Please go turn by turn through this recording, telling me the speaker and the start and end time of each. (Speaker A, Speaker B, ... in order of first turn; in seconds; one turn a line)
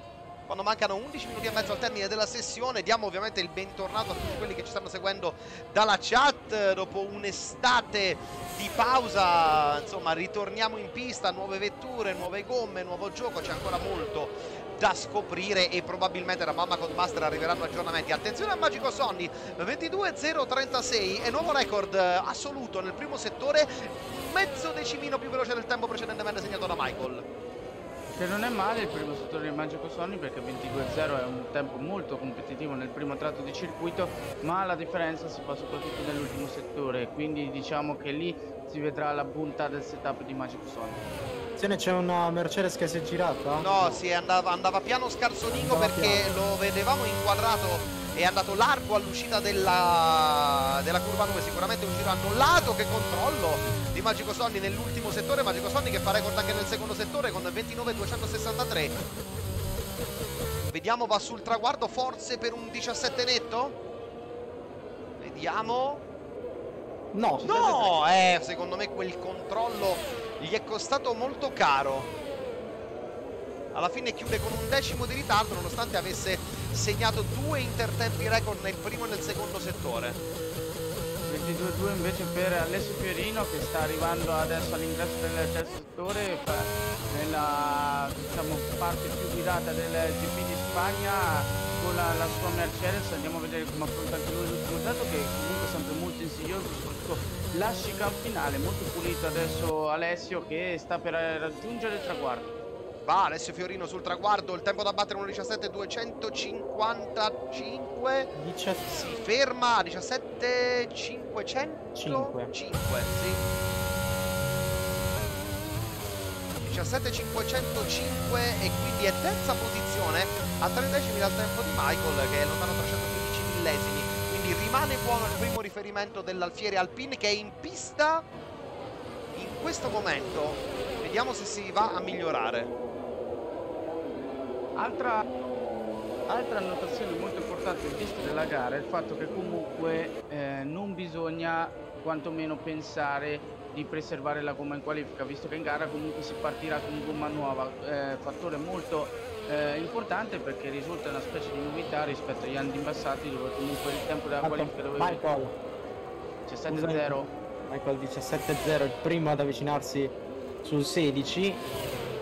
Speaker A: 0.5-27.3
Speaker B: 28.1-41.0
Speaker C: 41.6-44.0
Speaker A: 43.6-59.0
Speaker C: 45.5-46.3
Speaker A: 60.7-63.8
Speaker A: 65.2-66.0
Speaker C: 67.1-68.0
Speaker A: 67.4-72.1
Speaker A: 73.7-80.2
Speaker B: 81.2-102.5
Speaker A: 103.0-108.3
Speaker C: 108.3-108.8
Speaker A: 108.9-113.4
Speaker C: 112.0-112.5
Speaker A: 116.7-128.3
Speaker A: 129.3-132.7
Speaker B: 134.8-135.2
Speaker B: 136.3-155.2
Speaker C: 154.4-155.6
Speaker B: 156.5-157.3
Speaker C: 156.7-161.7